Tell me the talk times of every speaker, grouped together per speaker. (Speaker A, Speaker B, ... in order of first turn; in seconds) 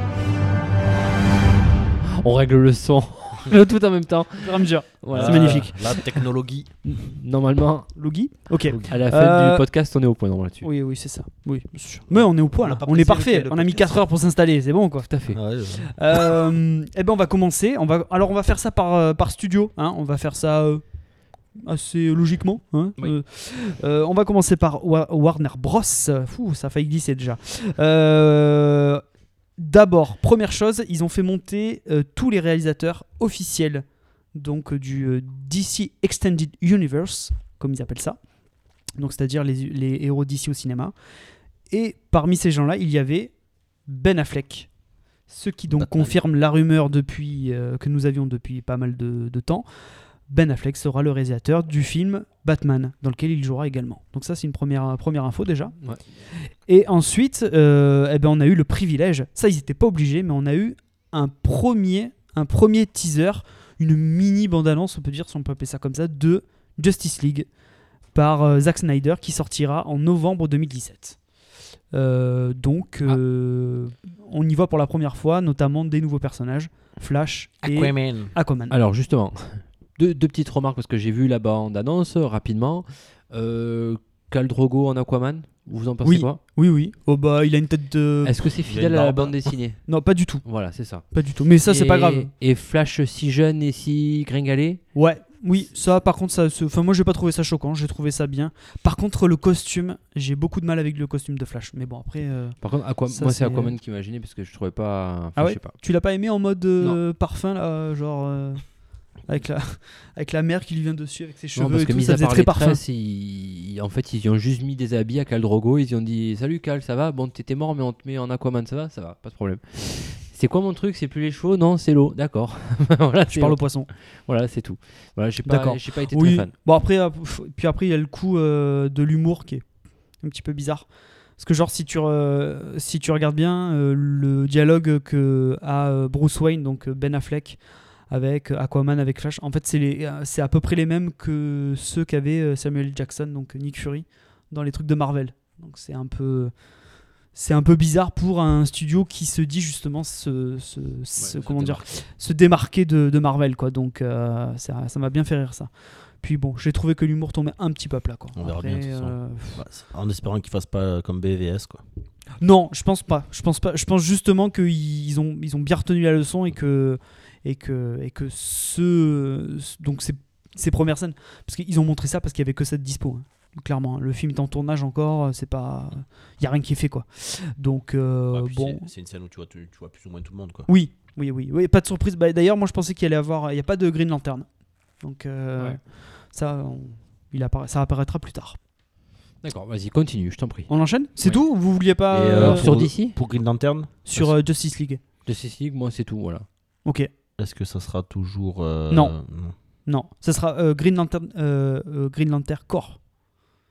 Speaker A: 2.0-6.2, 6.8-7.9, 8.8-10.7, 15.1-15.4, 78.7-86.4, 88.2-91.0, 91.6-94.8, 102.6-105.8, 111.6-123.6, 124.1-126.5, 189.4-191.4, 192.3-193.2, 195.2-196.4
Speaker B: 4.4-5.8, 7.9-9.7, 10.6-15.1, 15.9-20.8, 21.5-29.0, 29.6-38.2, 39.0-40.9, 41.7-44.7, 45.3-49.7, 50.3-55.8, 56.4-67.5, 68.1-71.2, 71.9-78.7, 86.0-88.3, 89.9-90.4, 91.0-92.3, 94.9-103.8, 105.4-112.8, 123.3-123.9, 125.5-129.7, 130.2-146.5, 147.3-159.6, 162.4-178.9, 180.7-188.6, 190.7-192.7, 194.1-195.0, 198.9-199.2, 199.8-203.0
Speaker C: 5.1-6.7, 12.1-14.0, 15.3-15.9, 45.8-46.1, 77.6-78.3, 88.7-89.4, 151.4-151.9, 158.4-161.8, 178.3-180.7, 192.1-194.3, 197.4-199.5